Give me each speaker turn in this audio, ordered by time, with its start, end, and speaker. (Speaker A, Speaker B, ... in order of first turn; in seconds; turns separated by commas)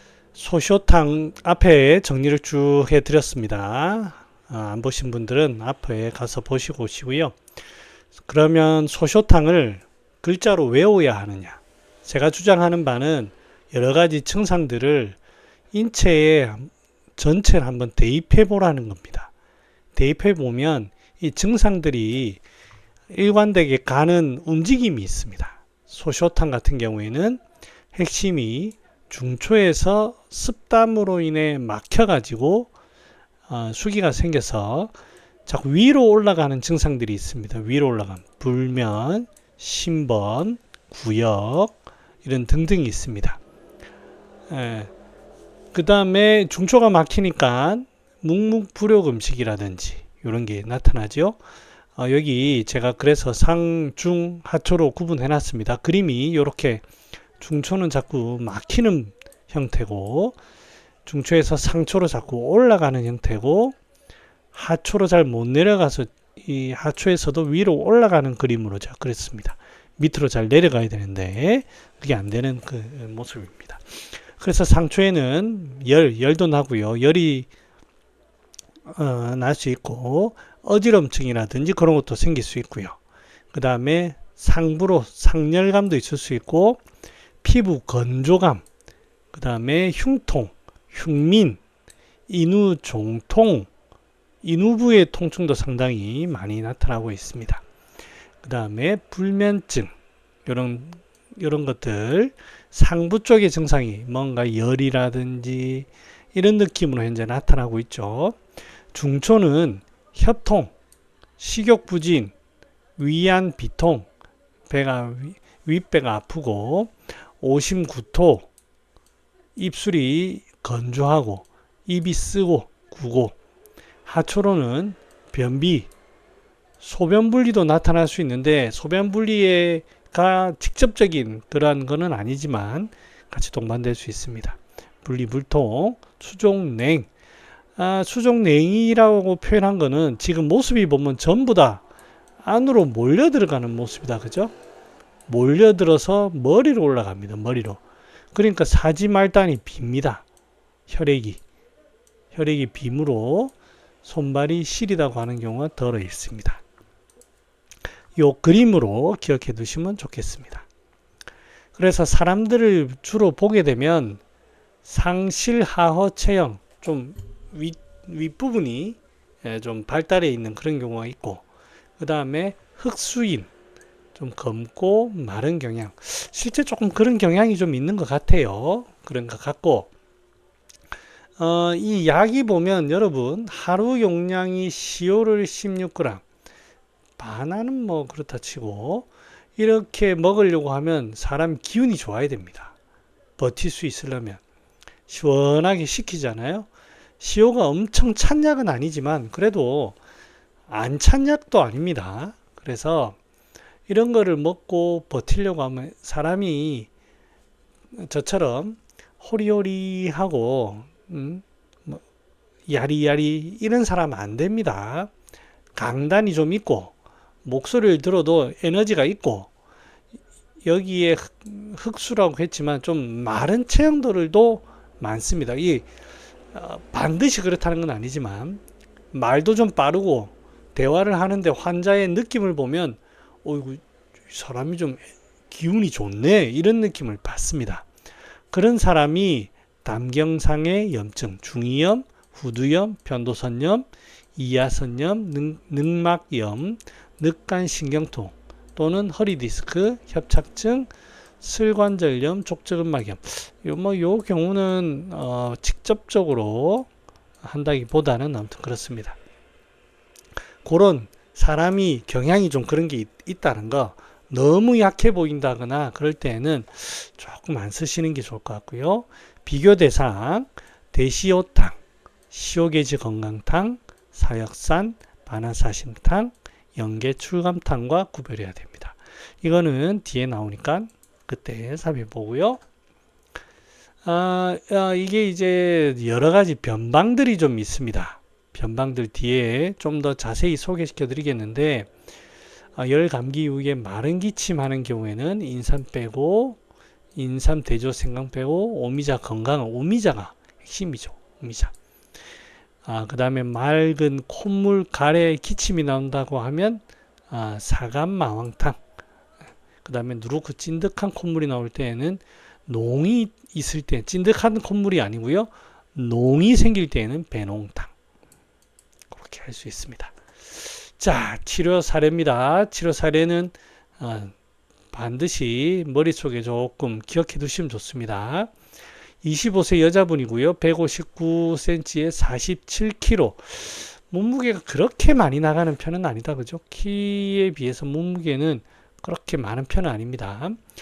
Speaker A: 0.3-7.4, Speaker A: 8.3-15.2, Speaker A: 15.7-19.3, Speaker A: 19.9-22.4, Speaker A: 23.1-27.4, Speaker A: 27.9-32.7, Speaker A: 33.5-34.9, Speaker A: 35.5-43.4, Speaker A: 44.5-44.9, Speaker A: 45.7-51.4, Speaker A: 52.0-56.8, Speaker A: 57.4-60.4, Speaker A: 61.0-63.8, Speaker A: 64.5-77.5, Speaker A: 78.9-83.0, Speaker A: 83.5-86.8, Speaker A: 87.4-88.6, Speaker A: 89.3-91.6, Speaker A: 92.3-93.7, Speaker A: 94.4-97.6, Speaker A: 98.4-99.9, Speaker A: 100.5-108.4, Speaker A: 108.9-110.7, Speaker A: 111.4-112.3, Speaker A: 113.0-114.1, Speaker A: 114.7-118.5, Speaker A: 119.5-123.3, Speaker A: 124.0-125.9, Speaker A: 126.8-137.1, Speaker A: 137.8-141.8, Speaker A: 142.4-144.5, Speaker A: 145.3-147.8, Speaker A: 148.3-150.2, Speaker A: 150.9-151.4, Speaker A: 152.3-153.5, Speaker A: 154.0-156.6, Speaker A: 158.2-160.7, Speaker A: 161.8-164.2, Speaker A: 164.8-171.4, Speaker A: 172.0-173.5, Speaker A: 174.1-179.9, Speaker A: 181.4-186.2, Speaker A: 187.2-192.7, Speaker A: 193.4-194.4, Speaker A: 195.1-196.7, Speaker A: 197.2-200.0, Speaker A: 200.7-203.2, Speaker A: 203.9-206.9, Speaker A: 207.9-212.0, Speaker A: 212.7-215.1, Speaker A: 215.8-216.9, Speaker A: 217.4-219.5, Speaker A: 220.6-225.9, Speaker A: 226.5-237.8, Speaker A: 238.5-256.9, Speaker A: 257.4-259.2, Speaker A: 260.6-271.8, Speaker A: 272.3-282.6, Speaker A: 284.0-291.9, Speaker A: 292.8-296.6, Speaker A: 297.1-301.7, Speaker A: 302.8-308.8, Speaker A: 309.8-317.9, Speaker A: 319.1-324.3, Speaker A: 324.9-328.5, Speaker A: 329.2-340.6